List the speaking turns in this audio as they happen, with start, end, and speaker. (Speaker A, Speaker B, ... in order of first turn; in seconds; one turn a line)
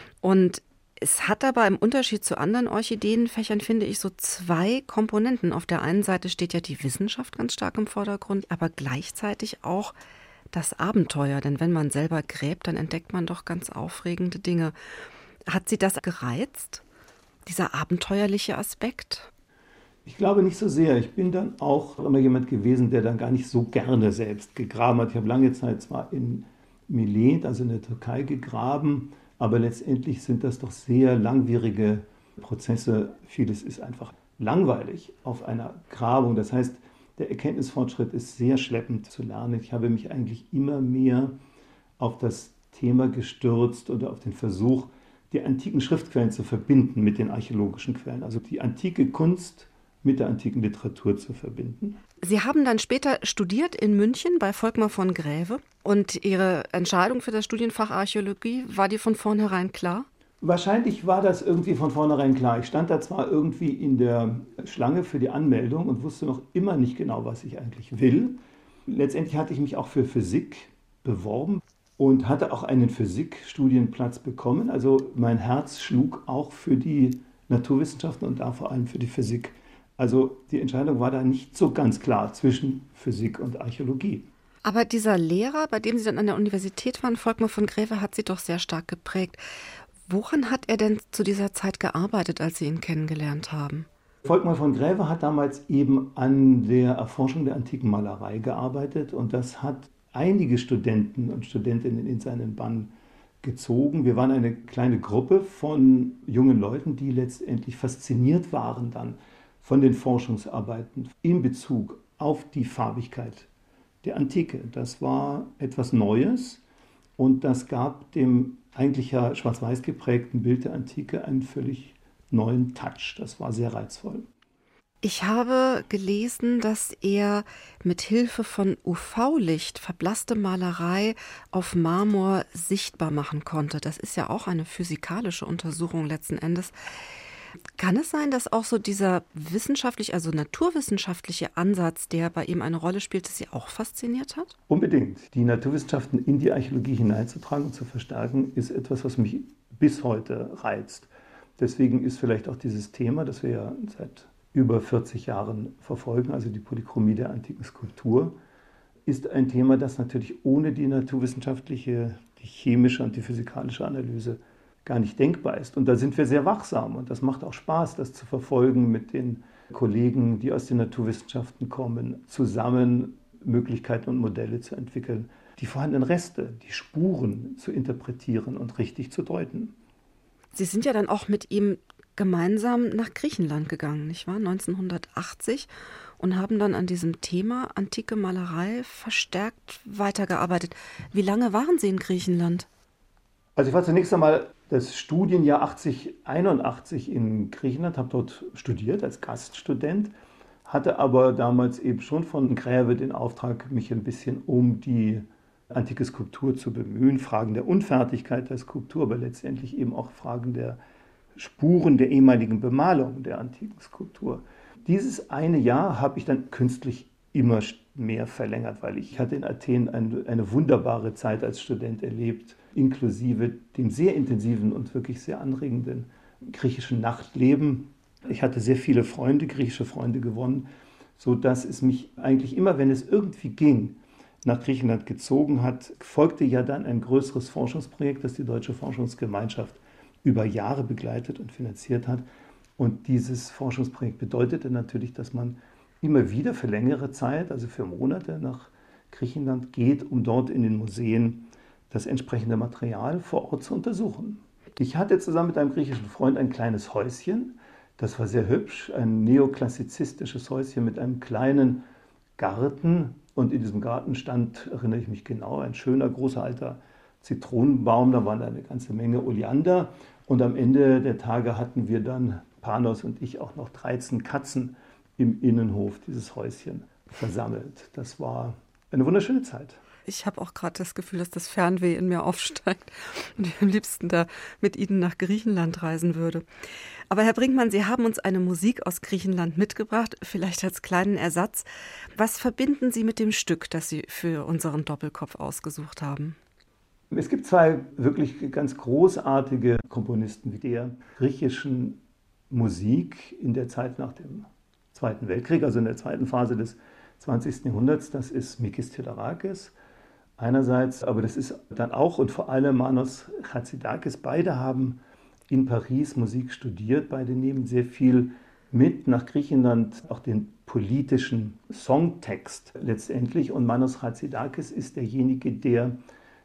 Speaker A: 0.2-9.9
Speaker A: 10.5-14.7
Speaker A: 15.5-16.8
Speaker A: 17.4-19.3
Speaker B: 20.1-41.4
Speaker B: 42.0-52.0
Speaker A: 52.2-60.1
Speaker B: 60.4-84.3
Speaker A: 84.6-89.4
Speaker A: 90.1-93.9
Speaker B: 94.2-113.5
Speaker B: 114.0-116.6
Speaker B: 117.2-124.3
Speaker A: 125.0-136.7
Speaker A: 137.8-144.5
Speaker B: 144.7-158.4
Speaker B: 159.1-179.7
Speaker A: 180.5-185.7
Speaker A: 186.2-192.7
Speaker B: 193.6-200.1
Speaker B: 200.7-210.8
Speaker B: 211.4-230.7
Speaker B: 231.2-242.2
Speaker B: 242.8-261.9
Speaker B: 262.4-279.8
Speaker A: 280.1-286.4
Speaker A: 287.1-296.4
Speaker B: 297.1-309.8
Speaker B: 310.4-326.0